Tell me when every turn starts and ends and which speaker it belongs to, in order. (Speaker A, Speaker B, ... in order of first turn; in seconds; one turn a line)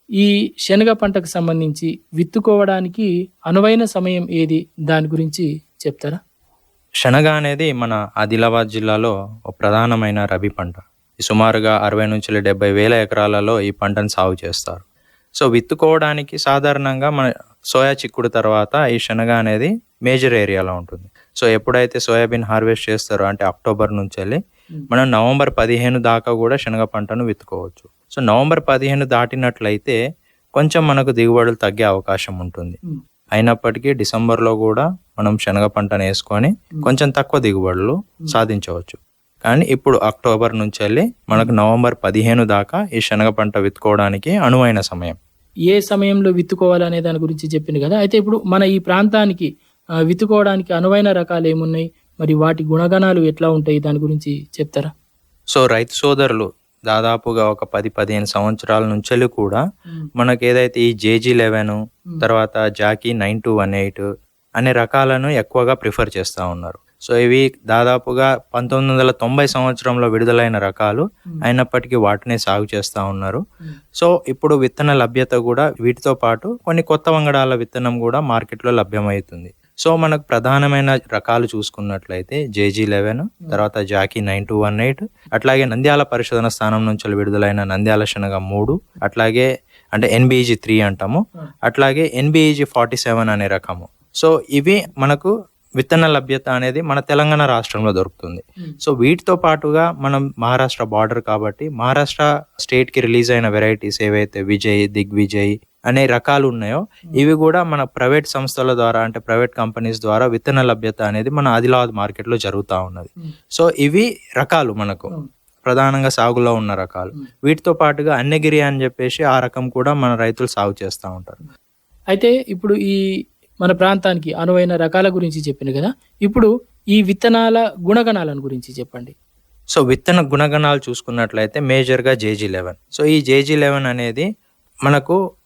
Speaker A: 0.2-6.2
Speaker B: 7.0-14.8
Speaker B: 15.4-24.4
Speaker B: 24.9-30.0
Speaker B: 30.6-32.8
Speaker B: 33.4-45.2
Speaker A: 45.7-49.5
Speaker A: 50.1-54.9
Speaker B: 55.5-59.6
Speaker B: 60.2-64.0
Speaker B: 64.6-73.4
Speaker B: 74.0-115.1
Speaker B: 115.7-121.4
Speaker A: 122.1-123.0
Speaker A: 123.6-129.1
Speaker B: 129.7-134.3
Speaker B: 134.9-135.2